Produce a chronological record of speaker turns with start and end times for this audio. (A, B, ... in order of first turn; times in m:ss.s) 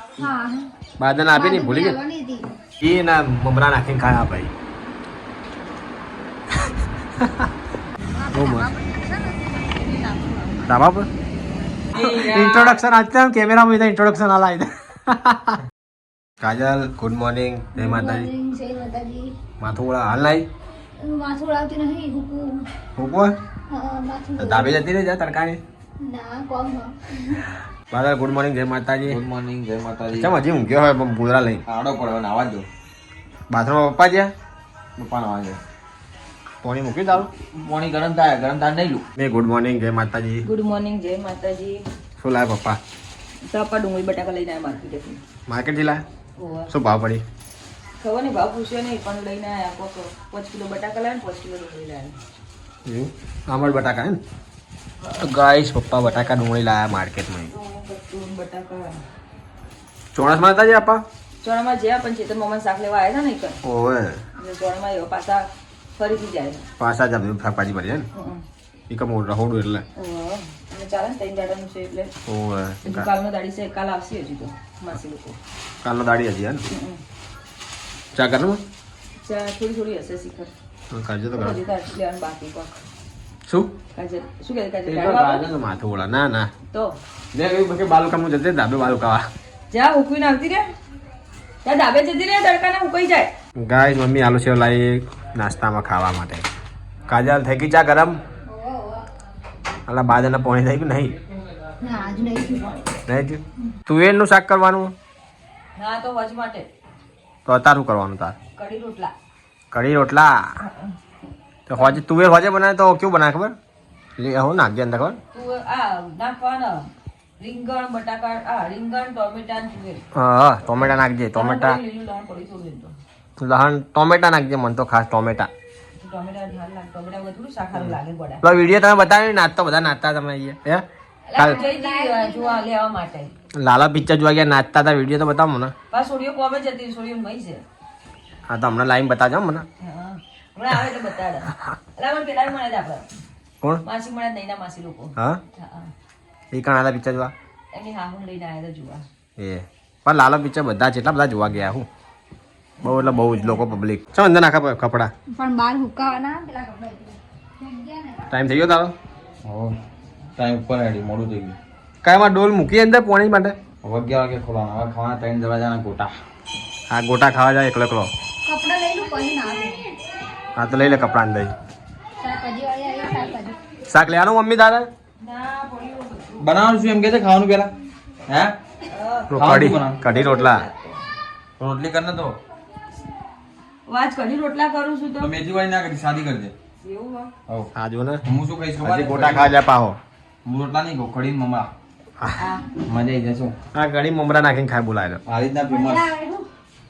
0:00.2-0:00.7 A
0:01.0-0:02.0 B
0:01.3-0:02.4 A
0:02.8-0:04.5 B
0:07.2-0:07.5 B
0:08.1-0:10.8 A
0:08.3-0:08.7 B
0:10.6-0:11.1 B
0:11.9-0:12.8 C
0:11.9-0:15.6 B
0:16.4-0:18.3 B
0:17.7-0:19.3 A
0:19.6-0:20.4 B
0:21.0-0:22.6 A
0:23.0-0:23.3 B
0:23.7-0:24.8 A
0:24.4-0:25.6 B
0:26.0-0:27.4 A
0:27.9-0:29.2 B
0:29.0-0:30.3 C
0:30.1-0:31.6 B
0:31.7-0:32.6 C
0:33.5-0:34.3 B
0:35.0-0:35.6 C
0:36.6-0:37.3 B
0:37.5-0:39.0 C
0:39.2-0:40.4 B
0:40.4-0:41.8 D
0:42.2-0:42.8 B
0:43.5-0:45.2 D
0:45.5-0:46.0 B
0:46.4-0:46.7 D
0:46.7-0:47.2 B
0:48.0-0:52.2 D
0:52.8-0:54.2 B
0:55.2-0:57.5 B
0:56.0-0:56.3 D
0:57.5-0:59.0 D
1:00.1-1:01.0 B
1:01.4-1:03.6 D
1:03.6-1:04.2 B
1:04.4-1:06.6 D
1:06.8-1:08.1 B
1:08.1-1:08.4 D
1:08.9-1:09.8 B
1:10.0-1:12.1 D
1:12.3-1:13.1 B
1:12.8-1:15.4 D
1:15.8-1:16.6 B
1:16.7-1:17.0 D
1:18.1-1:18.6 B
1:19.2-1:20.5 D
1:20.9-1:21.6 B
1:21.3-1:22.8 D
1:23.9-1:25.4 D
1:24.8-1:26.5 B
1:27.3-1:29.2 B
1:29.7-1:30.7 D
1:31.6-1:33.3 D
1:33.6-1:36.4 B
1:37.1-1:38.2 B
1:38.5-1:39.0 A
1:39.8-1:41.2 B
1:41.8-1:42.8 A
1:43.0-1:44.9 B
1:45.8-1:46.7 D
1:47.4-1:48.4 B
1:48.6-1:49.1 D
1:49.7-1:50.4 B
1:50.6-1:50.9 D
1:51.7-1:53.5 B
1:54.2-1:55.2 B
1:55.3-2:00.0 D
2:00.1-2:01.8 B
2:01.3-2:03.0 D
2:03.4-2:05.5 B
2:06.0-2:08.4 D
2:07.7-2:10.8 B
2:11.3-2:13.3 D
2:11.4-2:12.6 A
2:13.6-2:15.7 B
2:15.9-2:17.6 D
2:18.5-2:19.6 B
2:19.8-2:23.1 D
2:23.8-2:25.9 D
2:26.5-2:27.3 B
2:27.7-2:29.0 D
2:29.4-2:31.8 B
2:32.8-2:35.1 B
2:33.1-2:33.6 A
2:35.4-2:38.3 A
2:38.3-2:38.9 B
2:39.4-2:39.7 C
2:40.4-2:41.6 C
2:42.0-2:43.6 B
2:43.8-2:46.1 C
2:46.9-2:48.1 B
2:48.4-2:49.9 A
2:50.6-2:51.5 B
2:52.2-2:53.5 A
2:53.9-2:54.9 B
2:55.2-2:56.5 D
2:56.4-2:57.7 C
2:58.3-2:58.5 C
2:58.9-3:01.0 D
2:59.3-3:00.6 B
2:59.3-3:00.0 C
3:01.6-3:02.4 C
3:03.8-3:05.3 D
3:05.2-3:06.5 C
3:06.8-3:07.3 D
3:07.7-3:08.2 B
3:08.2-3:09.5 C
3:08.8-3:10.0 B
3:10.4-3:11.7 C
3:12.4-3:12.7 D
3:12.8-3:13.5 C
3:13.7-3:15.2 B
3:15.3-3:16.1 C
3:15.7-3:16.5 A